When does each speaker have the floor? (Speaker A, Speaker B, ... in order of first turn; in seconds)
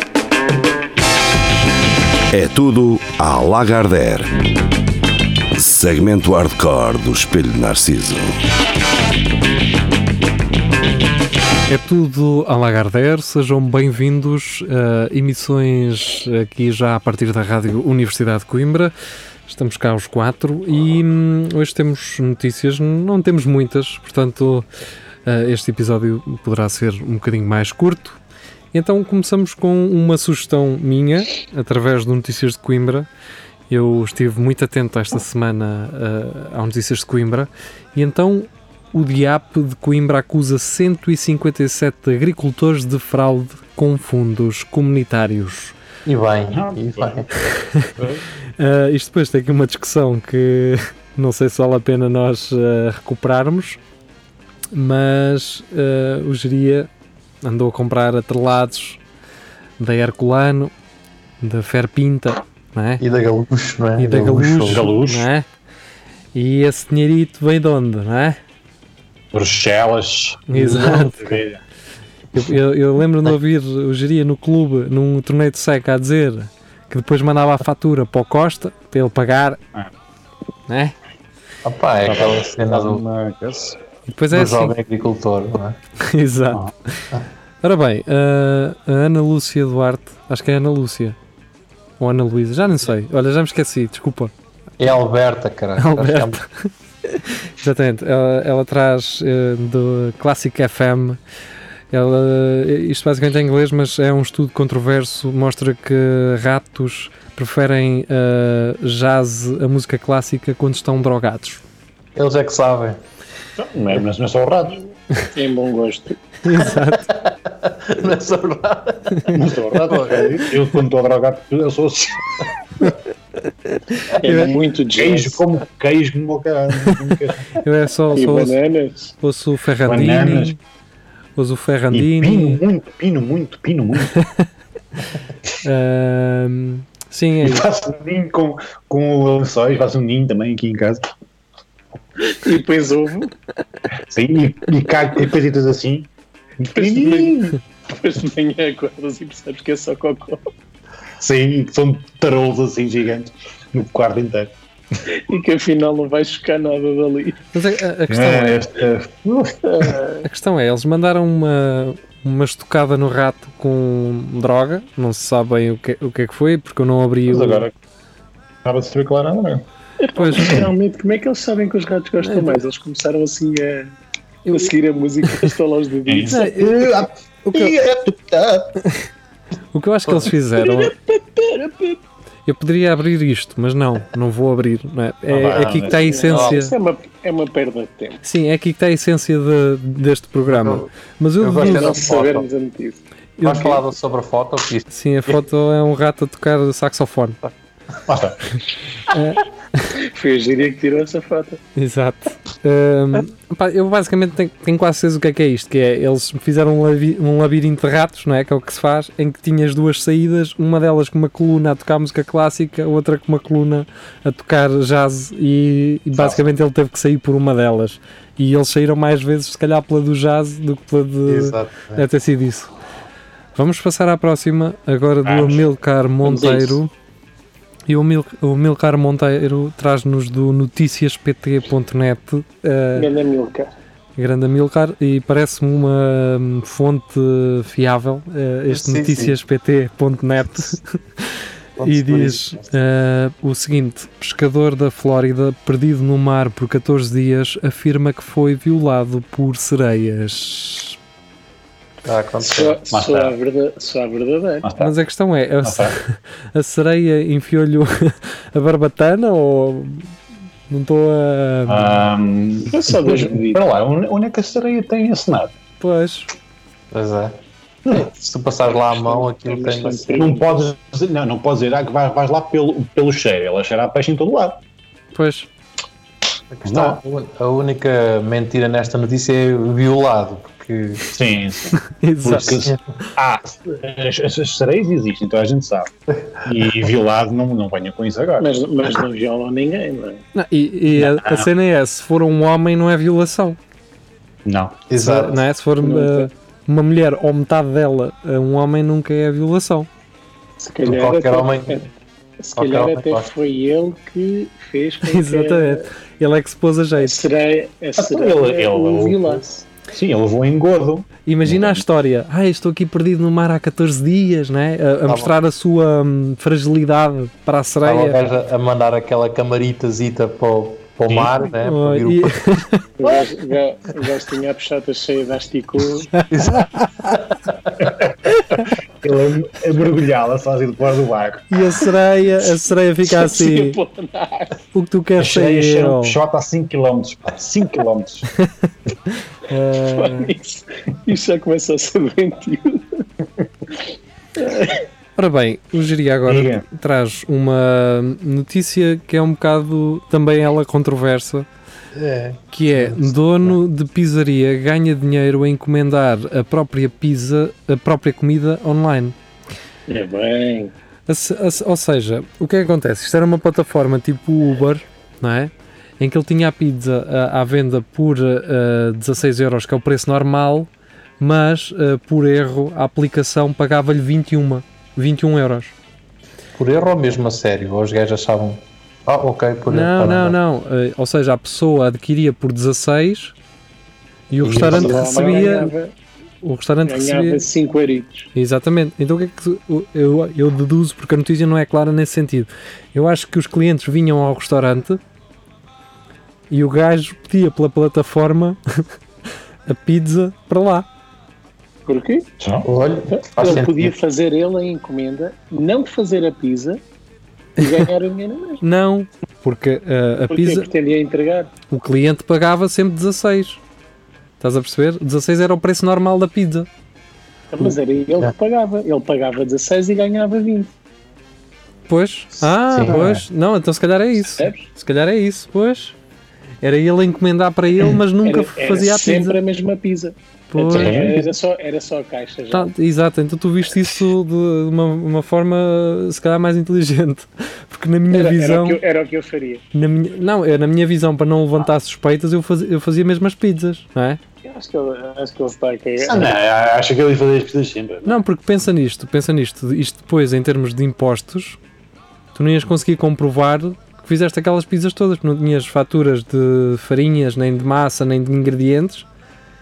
Speaker A: 2.3-4.3, 5.5-8.4
Speaker B: 11.7-18.9, 19.4-24.7, 25.2-28.2, 28.7-33.1, 33.7-45.7, 47.5-47.9, 48.6-53.8, 54.7-56.9, 57.4-59.0, 59.8-60.7, 61.4-63.0, 64.0-65.5, 66.3-68.4, 70.5-71.3, 72.3-79.6, 80.7-80.9, 84.1-84.7, 86.0-87.1, 87.6-91.2, 92.0-94.3, 95.8-101.2, 101.9-111.6, 116.4-117.1, 124.3-124.5, 127.6-128.5, 129.2-130.6, 131.3-132.6, 134.1-134.4, 135.6-137.7, 157.5-158.6, 160.2-167.7, 170.2-170.6, 172.2-172.6, 174.4-174.7, 176.3-176.9, 177.4-177.7, 179.7-180.9, 182.4-186.7, 188.2-192.1, 193.4-193.8, 194.9-197.4, 199.1-199.9, 201.7-222.7, 223.5-226.9, 227.9-233.1, 234.2-251.0, 254.8-260.1, 260.7-262.0, 265.8-266.3, 275.1-275.5, 281.8-282.6, 290.3-293.6, 294.9-299.9, 305.0-307.1, 311.2-318.2, 321.6-322.8, 326.1-327.2, 331.5-333.8, 334.7-336.2, 339.5-340.3, 345.1-351.5, 352.5-359.1, 361.1-375.7, 379.7-383.3, 384.3-385.7, 386.4-387.4, 388.3-395.0, 396.5-398.6, 399.7-400.9, 408.6-410.7, 411.7-413.6, 414.4-416.7, 421.9-425.9, 426.6-429.4, 430.5-431.0, 432.5-438.8, 439.7-444.2, 448.1-451.6, 452.3-459.1
Speaker C: 46.0-47.3, 63.0-64.9, 70.5-71.3, 81.6-83.0, 84.3-85.8, 94.8-96.4, 112.2-113.0, 116.8-119.3, 119.9-120.4, 180.1-180.3, 186.3-186.6, 190.5-190.9, 191.4-192.4, 193.4-194.9, 216.1-216.4, 221.2-222.0, 238.7-239.3, 241.8-242.7, 252.0-252.8, 266.9-267.3, 267.9-270.2, 276.5-281.0, 294.9-295.4, 300.8-301.8, 302.6-303.3, 315.1-315.3, 317.8-322.3, 326.3-327.5, 351.9-353.6, 376.6-380.4, 384.4-385.2, 402.6-403.9, 417.6-418.3, 422.4-423.0
Speaker D: 46.5-47.2, 48.0-48.2, 64.7-65.3, 69.3-70.5, 71.0-71.6, 82.0-83.8, 113.6-114.8, 119.3-122.5, 124.9-127.6, 129.8-130.6, 131.9-134.1, 137.4-141.0, 144.1-147.6, 151.2-154.5, 158.1-160.0, 167.3-167.7, 168.6-169.6, 170.3-170.6, 176.1-178.7, 185.3-186.3, 198.1-198.4, 225.2-225.6, 252.9-253.3, 254.6-254.9, 255.6-255.9, 261.7-265.5, 270.1-274.6, 276.6-277.0, 281.1-285.9, 286.4-288.5, 290.9-291.5, 294.4-294.8, 307.9-311.8, 321.1-321.4, 327.8-328.4, 329.0-331.6, 335.2-338.3, 346.2-346.6, 384.4-385.6, 402.4-402.7, 422.9-423.2, 430.7-431.2, 446.0-448.1
Speaker E: 115.3-116.2, 124.2-125.5, 128.2-129.1, 142.2-143.3, 146.7-150.4, 155.1-157.4, 159.7-160.2, 170.1-173.9, 174.5-176.5, 180.6-182.0, 185.9-188.2, 191.6-193.0, 200.1-201.6, 226.2-226.8, 232.9-233.7, 252.4-254.7, 262.7-263.6, 268.8-270.6, 288.4-290.2, 295.8-296.3, 300.6-301.9, 302.4-305.9, 307.0-309.7, 323.0-326.1, 333.0-334.6, 339.7-343.0, 344.4-344.8, 359.9-360.7, 384.7-385.9, 386.8-388.3, 401.9-402.2, 403.1-406.8, 407.6-408.6, 410.3-411.5, 417.5-420.7, 428.2-432.7, 438.1-439.6, 444.4-446.3